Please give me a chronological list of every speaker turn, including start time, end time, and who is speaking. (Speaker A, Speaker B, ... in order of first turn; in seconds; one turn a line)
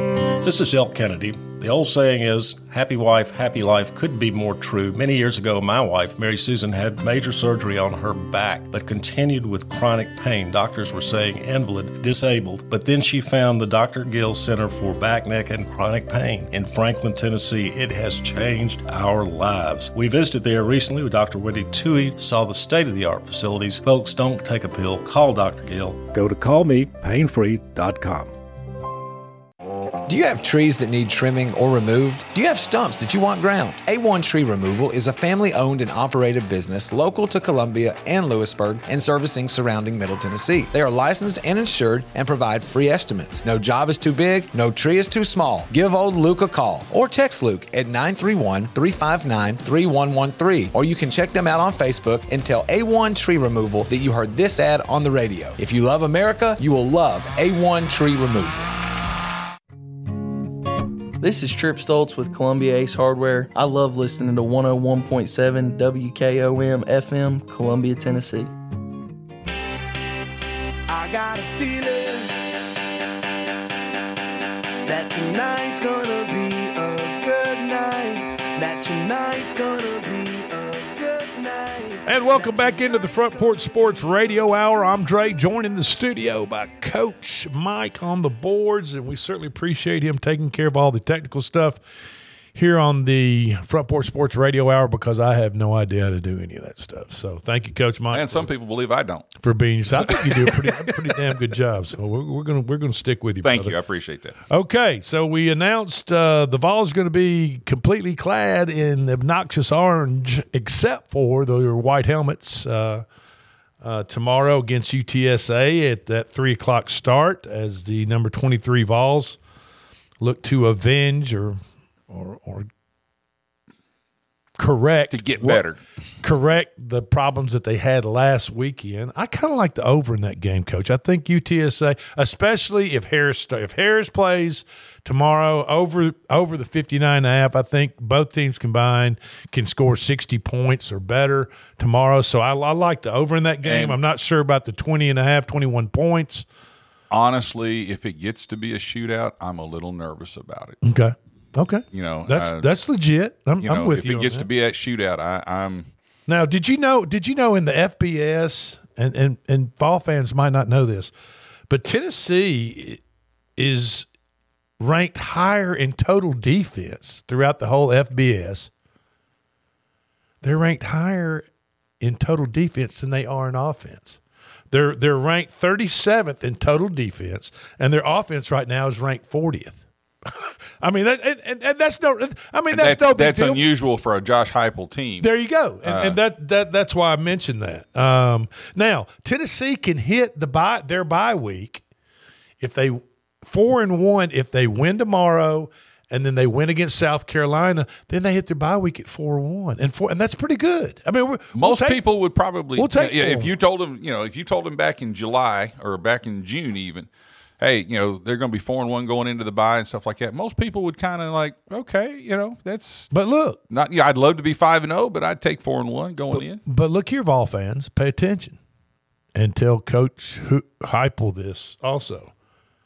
Speaker A: 0.4-28.3
Speaker B: 30.1-58.6
Speaker C: 61.2-68.5
Speaker D: 70.9-72.4
Speaker D: 74.9-81.8
Speaker E: 82.0-91.8
Speaker E: 92.5-98.5
Speaker F: 98.1-99.3
Speaker E: 99.4-103.8
Speaker F: 99.9-100.8
Speaker F: 103.4-104.4
Speaker E: 104.5-113.0
Speaker E: 113.8-119.4
Speaker E: 120.2-122.7
Speaker E: 124.6-125.7
Speaker F: 125.1-125.8
Speaker E: 126.2-146.4
Speaker F: 143.6-144.0
Speaker F: 147.1-150.8
Speaker E: 150.8-154.5
Speaker F: 151.9-152.7
Speaker F: 153.6-155.9
Speaker E: 156.3-161.1
Speaker E: 161.7-163.0
Speaker E: 163.6-164.1
Speaker E: 164.8-168.7
Speaker E: 170.4-171.4
Speaker E: 172.0-174.2
Speaker E: 174.7-179.8
Speaker E: 180.3-183.6
Speaker F: 182.7-185.3
Speaker E: 185.2-191.8
Speaker F: 185.8-186.2
Speaker E: 192.6-202.0
Speaker F: 201.5-213.1
Speaker E: 202.8-203.5
Speaker E: 213.1-213.6
Speaker F: 213.7-216.6
Speaker E: 216.3-218.6
Speaker E: 219.3-222.3